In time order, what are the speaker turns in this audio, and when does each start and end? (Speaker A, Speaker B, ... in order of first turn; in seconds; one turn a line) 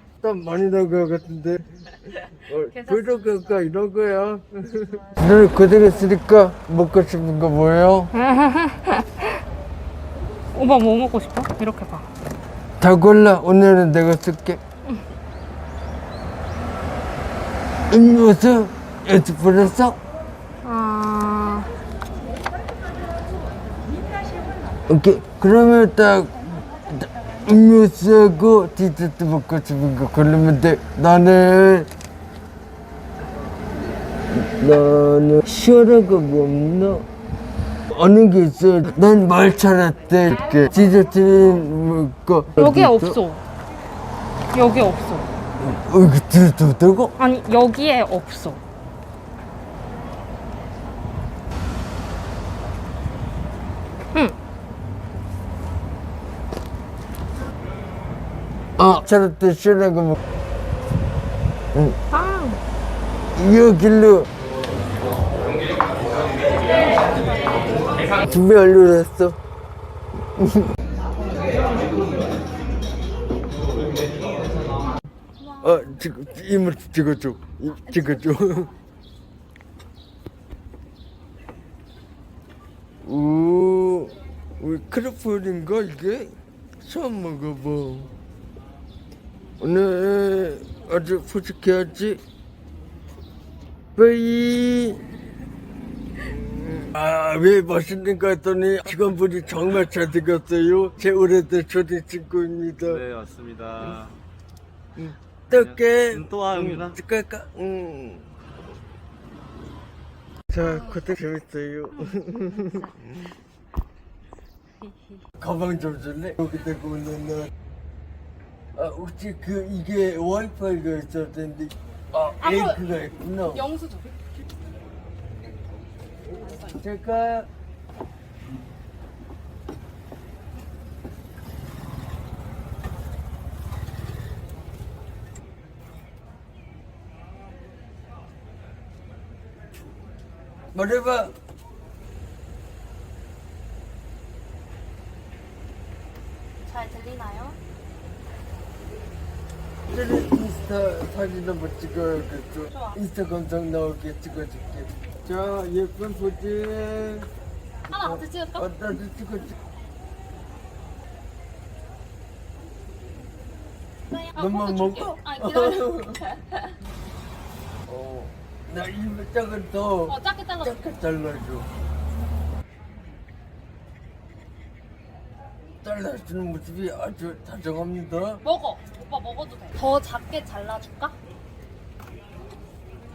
Speaker A: 0.2-8.1
Speaker B: 2.7-3.6
Speaker B: 8.1-9.4
Speaker B: 10.5-12.1
Speaker A: 12.8-14.6
Speaker A: 17.9-20.0
Speaker B: 20.6-21.7
Speaker A: 24.9-31.9
Speaker A: 34.3-37.1
Speaker A: 37.9-43.2
Speaker B: 42.6-43.4
Speaker B: 44.5-45.3
Speaker A: 45.6-47.1
Speaker B: 47.2-48.6
Speaker A: 58.8-60.2
Speaker B: 62.1-62.6
Speaker A: 63.4-64.3
Speaker A: 68.2-69.4
Speaker A: 70.4-70.7
Speaker B: 75.4-75.8
Speaker A: 75.6-78.7
Speaker B: 77.9-78.7
Speaker A: 83.0-88.2
Speaker A: 89.6-92.2
Speaker A: 94.0-95.0
Speaker A: 96.2-103.0
Speaker C: 102.8-104.1
Speaker A: 105.0-108.3
Speaker C: 105.5-107.0
Speaker A: 110.5-112.9
Speaker B: 110.6-111.0
Speaker B: 112.5-112.9
Speaker A: 115.4-117.5
Speaker A: 118.8-123.7
Speaker B: 122.4-122.8
Speaker B: 123.5-124.2
Speaker A: 126.4-127.5
Speaker B: 126.4-126.8
Speaker A: 140.7-141.3
Speaker B: 146.6-147.6
Speaker A: 149.9-157.3
Speaker B: 152.7-153.0
Speaker B: 157.9-158.7
Speaker A: 157.9-159.5
Speaker B: 164.1-166.7
Speaker A: 164.4-166.2
Speaker A: 167.9-171.7
Speaker B: 170.1-170.8
Speaker A: 175.8-178.4
Speaker B: 178.4-181.2